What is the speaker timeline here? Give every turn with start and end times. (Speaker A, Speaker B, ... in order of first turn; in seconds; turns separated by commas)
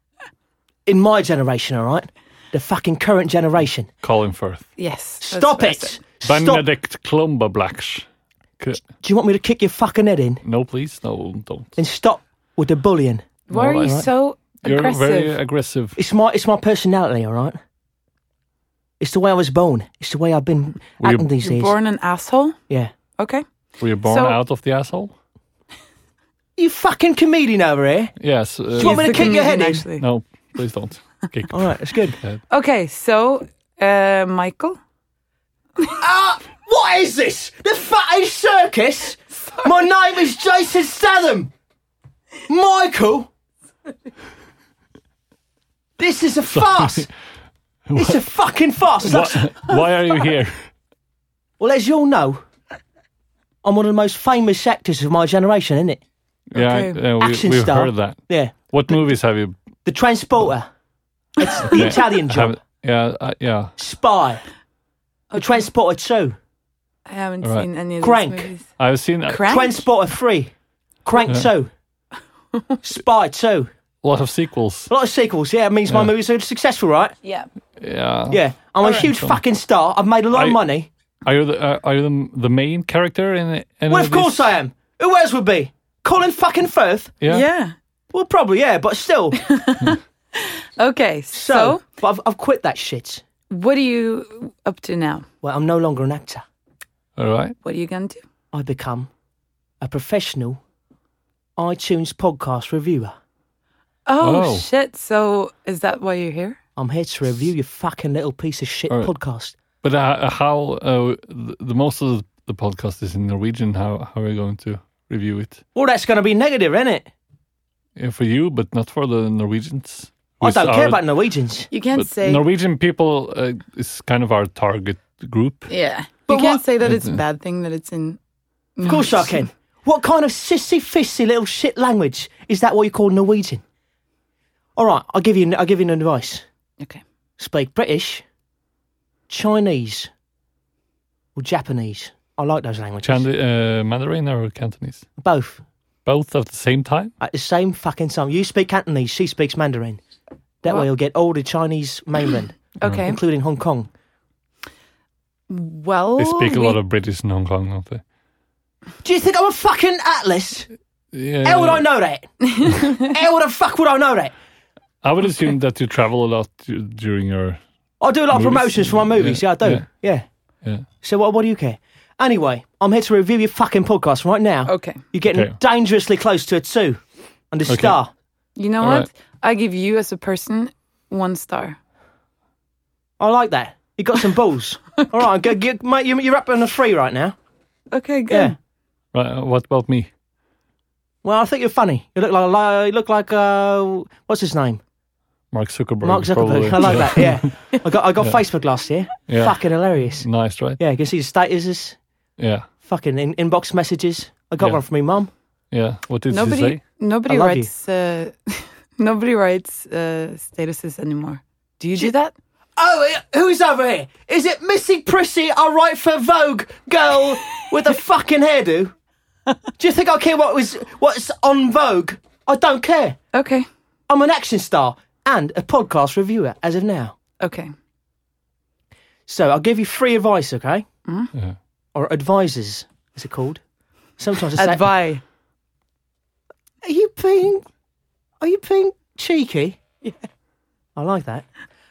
Speaker A: 0.8-3.9, Speaker B: 4.0-4.6, Speaker C: 4.8-6.0, Speaker A: 5.2-6.6, Speaker B: 6.2-8.1, Speaker A: 9.0-10.4, Speaker B: 10.4-11.8, Speaker A: 11.8-14.1, Speaker C: 13.5-15.3, Speaker B: 13.5-14.0, Speaker B: 14.6-16.0, Speaker A: 15.9-17.6, Speaker A: 19.0-21.7, Speaker B: 21.0-21.3, Speaker C: 21.4-22.6, Speaker C: 23.2-23.4, Speaker B: 23.8-25.1, Speaker C: 24.0-24.4, Speaker A: 26.6-28.1, Speaker B: 28.2-29.4, Speaker A: 28.7-29.9, Speaker C: 28.8-30.1, Speaker B: 30.0-31.7, Speaker A: 31.5-32.2, Speaker C: 32.5-34.8, Speaker A: 36.0-41.5, Speaker A: 42.5-43.3, Speaker A: 46.0-47.1, Speaker B: 46.6-47.1, Speaker B: 47.9-48.2, Speaker A: 48.0-49.8, Speaker B: 49.0-50.7, Speaker A: 51.6-52.4, Speaker A: 53.6-56.0, Speaker B: 56.5-59.6, Speaker C: 56.5-57.0, Speaker A: 57.2-58.5, Speaker A: 59.8-60.7, Speaker A: 61.4-62.5, Speaker B: 61.7-63.7, Speaker A: 63.8-64.4, Speaker A: 65.3-66.3, Speaker C: 67.1-68.7, Speaker B: 67.4-67.7, Speaker A: 68.0-68.5, Speaker B: 68.8-69.5, Speaker C: 69.3-69.8, Speaker A: 69.4-70.5, Speaker A: 71.0-71.7, Speaker A: 72.8-73.7, Speaker B: 74.0-74.9, Speaker A: 74.9-77.1, Speaker C: 77.2-77.5, Speaker B: 77.8-78.4, Speaker A: 78.3-80.9, Speaker B: 78.9-79.4, Speaker B: 80.3-80.6, Speaker B: 81.2-84.5, Speaker A: 83.9-87.1, Speaker B: 87.2-87.5, Speaker C: 87.2-87.7, Speaker A: 88.1-89.4, Speaker C: 89.5-91.8, Speaker A: 91.3-93.2, Speaker C: 93.5-95.2, Speaker A: 95.4-96.4, Speaker B: 97.2-97.5, Speaker C: 97.6-98.2, Speaker A: 98.5-99.1, Speaker A: 99.8-100.6, Speaker A: 101.6-103.2, Speaker C: 104.0-106.6, Speaker B: 104.2-104.7, Speaker A: 106.8-109.5, Speaker B: 109.8-115.6, Speaker A: 115.7-117.1, Speaker B: 118.0-121.0, Speaker A: 120.4-121.7, Speaker C: 121.7-122.4, Speaker B: 121.9-125.7, Speaker C: 125.7-128.2, Speaker A: 126.3-126.6, Speaker B: 126.8-127.2, Speaker C: 128.8-129.4, Speaker A: 128.8-133.6, Speaker A: 134.8-136.4, Speaker A: 137.4-138.2, Speaker A: 139.3-140.1, Speaker A: 141.3-143.2, Speaker B: 143.0-145.1, Speaker A: 145.2-145.6, Speaker B: 146.0-147.1, Speaker A: 147.2-150.0, Speaker A: 150.6-153.9, Speaker C: 152.8-153.2, Speaker C: 155.5-156.8, Speaker B: 156.2-158.0, Speaker A: 159.0-160.7, Speaker B: 161.1-161.8, Speaker A: 161.4-164.3, Speaker C: 162.5-163.0, Speaker B: 165.0-167.6, Speaker A: 168.0-170.2, Speaker B: 168.3-169.8, Speaker A: 171.0-178.1, Speaker C: 174.7-175.0, Speaker B: 175.3-175.5, Speaker B: 177.7-178.0, Speaker C: 178.6-181.8, Speaker B: 178.8-179.1, Speaker A: 183.2-187.3, Speaker C: 187.9-188.5, Speaker A: 188.3-188.5, Speaker B: 189.1-190.1, Speaker A: 191.2-194.8, Speaker B: 195.5-197.6, Speaker A: 196.0-202.0, Speaker B: 199.3-200.8, Speaker B: 202.4-202.7, Speaker A: 202.8-205.3, Speaker B: 205.7-206.8, Speaker C: 206.3-212.3, Speaker A: 207.3-207.7, Speaker A: 212.8-218.9, Speaker A: 219.8-223.2, Speaker C: 223.3-223.7, Speaker A: 224.1-227.1, Speaker C: 227.4-227.7, Speaker A: 229.3-230.8, Speaker A: 231.9-233.6, Speaker A: 234.2-234.9, Speaker C: 234.6-235.2, Speaker A: 236.8-237.7, Speaker A: 238.4-239.8, Speaker A: 240.9-241.5